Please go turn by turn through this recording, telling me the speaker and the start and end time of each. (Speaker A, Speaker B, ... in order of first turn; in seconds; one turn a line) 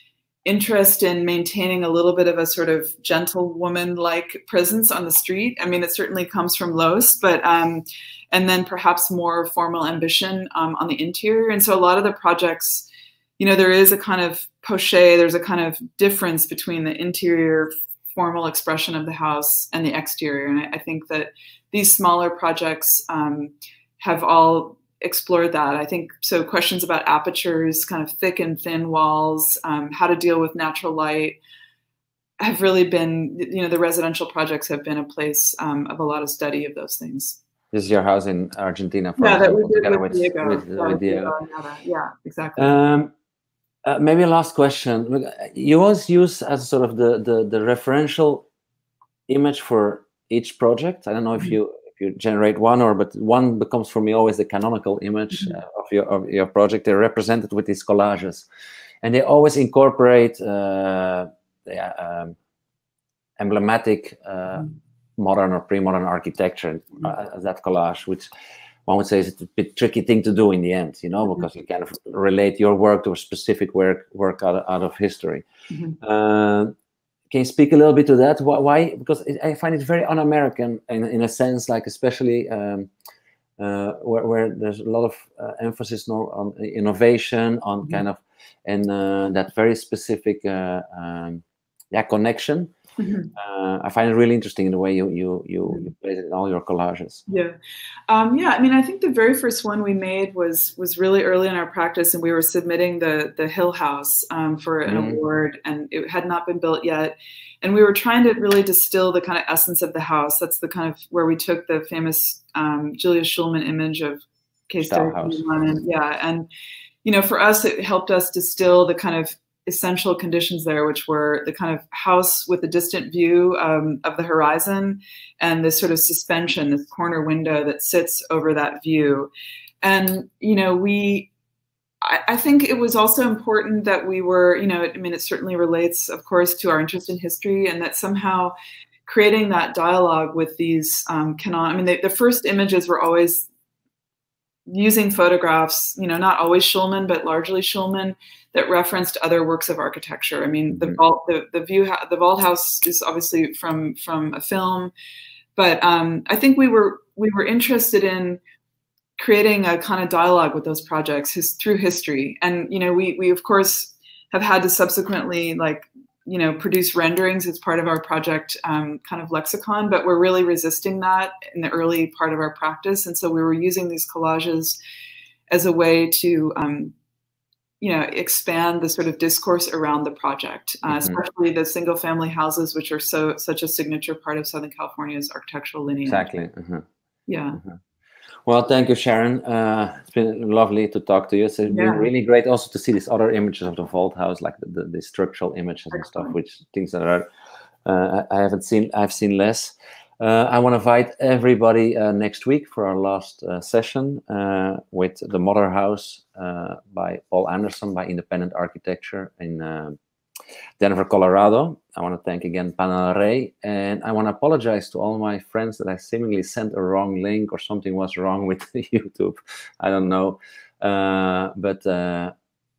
Speaker A: 0.5-12.9
Speaker A: 13.4-31.4
Speaker A: 32.4-37.4
Speaker B: 37.7-41.4
Speaker A: 39.2-42.8
Speaker B: 42.6-43.1
Speaker B: 43.9-48.5
Speaker B: 49.3-58.5
Speaker B: 59.0-62.4
Speaker B: 63.4-68.3
Speaker B: 68.9-75.4
Speaker A: 75.7-76.0
Speaker B: 76.0-76.7
Speaker B: 77.3-82.9
Speaker B: 83.6-92.7
Speaker A: 93.0-93.3
Speaker B: 93.3-97.2
Speaker A: 95.7-95.9
Speaker A: 97.3-97.6
Speaker A: 98.1-116.5
Speaker B: 104.8-105.2
Speaker B: 114.8-115.5
Speaker A: 117.0-129.3
Speaker A: 129.8-131.3
Speaker A: 132.0-138.5
Speaker A: 139.1-143.5
Speaker A: 144.7-154.9
Speaker B: 150.7-151.0
Speaker A: 155.6-158.4
Speaker A: 159.2-174.8
Speaker A: 175.5-176.9
Speaker A: 177.8-186.3
Speaker B: 180.9-181.2
Speaker B: 186.1-186.9
Speaker A: 187.3-187.6
Speaker B: 188.5-197.3
Speaker A: 191.7-192.1
Speaker A: 195.9-196.3
Speaker B: 197.8-210.0
Speaker B: 210.8-222.3